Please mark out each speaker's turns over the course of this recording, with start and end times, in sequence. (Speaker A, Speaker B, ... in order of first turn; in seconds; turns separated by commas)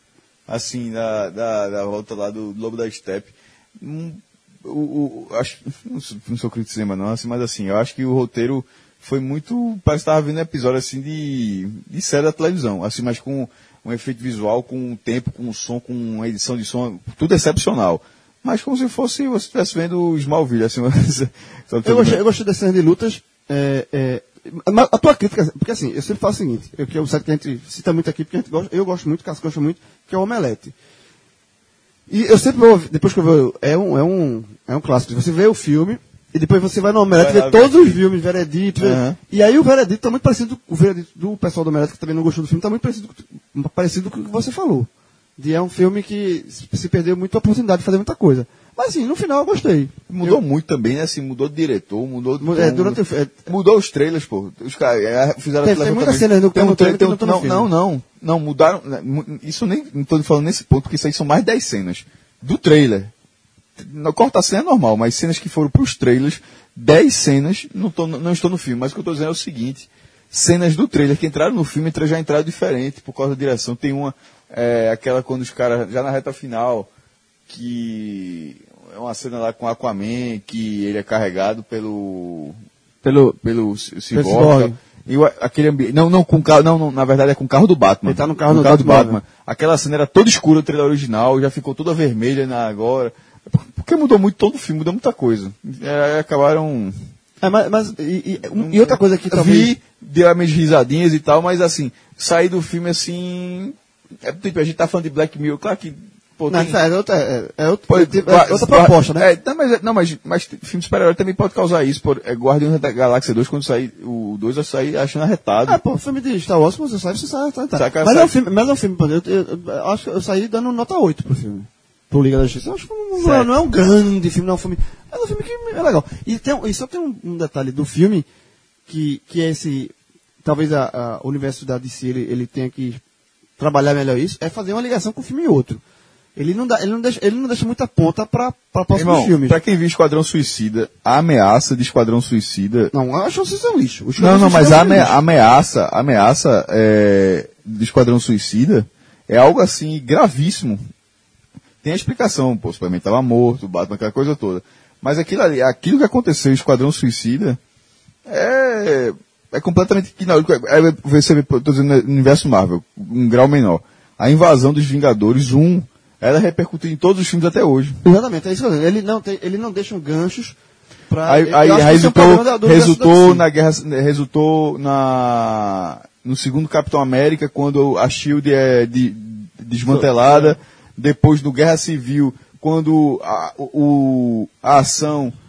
Speaker A: 0.5-22.2, Speaker B: 21.8-30.7, Speaker B: 32.1-50.4, Speaker A: 37.1-38.0, Speaker A: 38.8-39.2, Speaker A: 50.1-63.1, Speaker B: 52.4-53.5, Speaker B: 55.6-57.7, Speaker A: 63.8-76.9, Speaker A: 77.5-96.9, Speaker B: 84.1-84.8, Speaker B: 88.0-89.2, Speaker B: 97.4-99.7, Speaker A: 98.5-106.8, Speaker B: 106.5-109.3, Speaker A: 107.9-115.8, Speaker B: 115.6-128.2, Speaker A: 117.7-118.3, Speaker A: 123.2-123.5, Speaker B: 128.9-133.0, Speaker B: 133.6-135.8, Speaker B: 136.3-139.6, Speaker A: 138.9-142.9, Speaker B: 142.9-145.2, Speaker A: 144.2-150.8, Speaker A: 151.8-157.6, Speaker A: 158.3-168.0, Speaker B: 168.0-170.6, Speaker B: 171.1-173.4, Speaker A: 171.2-185.3, Speaker B: 179.9-180.5